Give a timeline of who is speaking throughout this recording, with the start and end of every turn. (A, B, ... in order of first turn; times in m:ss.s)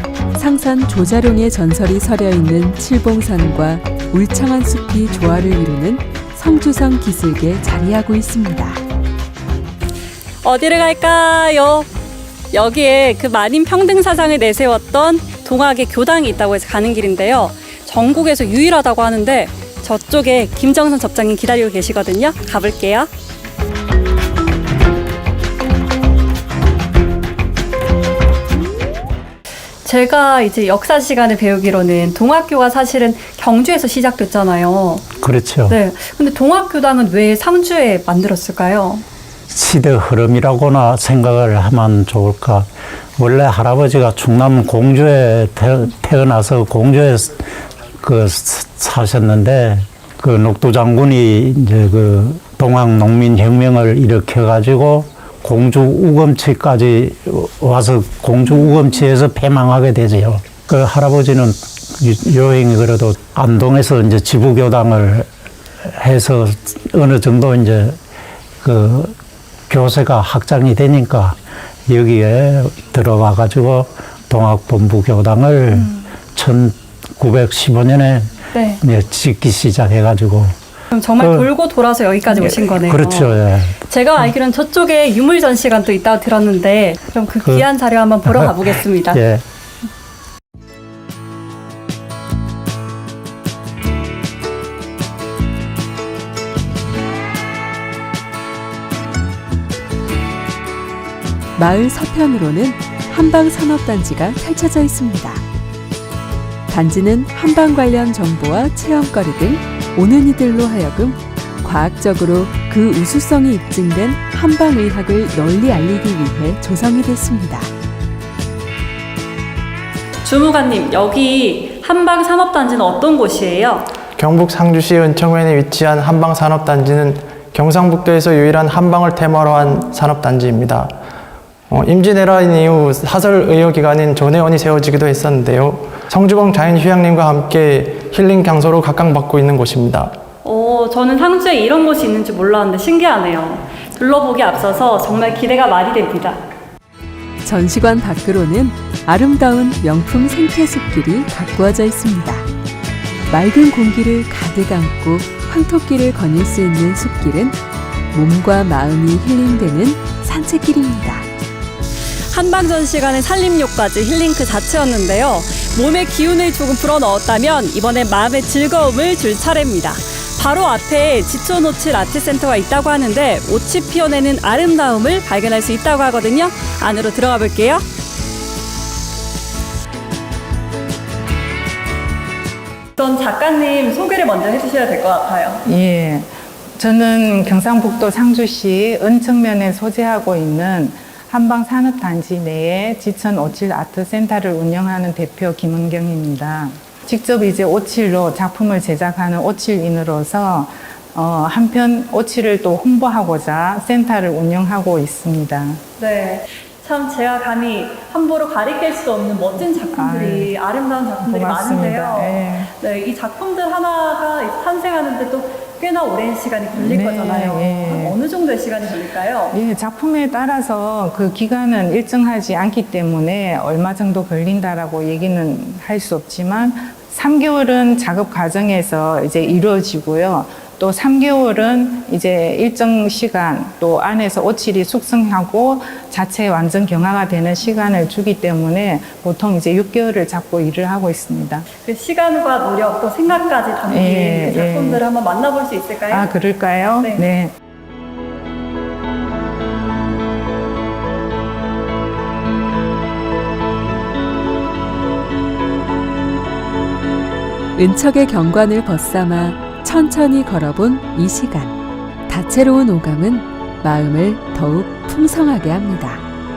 0:00.3-0:08.8 A
0:10.4-0:11.9 B
0:12.5-0:23.1 B
0:29.8-0:35.0 B
0:35.2-0:35.8 C
0:35.7-0:39.0 B
0:39.5-0:47.5 C
0:48.0-1:05.3 C
1:05.8-1:08.0 C
1:08.6-1:09.2 C
1:09.7-1:20.5 C
1:18.5-1:18.8 B
1:20.9-1:29.2 B
1:21.2-1:21.5 C
1:22.3-1:23.8 C
1:28.2-1:29.4 C
1:41.6-1:45.4 A
1:46.7-1:57.7 A
2:00.2-2:03.9 B
2:04.2-2:11.0 D
2:11.7-2:20.2 D
2:20.4-2:26.4 B
2:27.4-2:32.5 A
2:33.3-2:37.6 A
2:38.1-2:41.2 A
2:42.3-2:57.8 B
3:03.0-3:05.6 B
3:05.6-3:25.8 E
3:26.0-3:39.5 B
3:29.9-3:30.6 E
3:31.2-3:32.7 E
3:36.7-3:38.2 E
3:39.5-4:01.6 E
4:01.8-4:06.3 B
4:03.9-4:05.0 E
4:06.1-4:07.5 E
4:17.8-4:26.2 A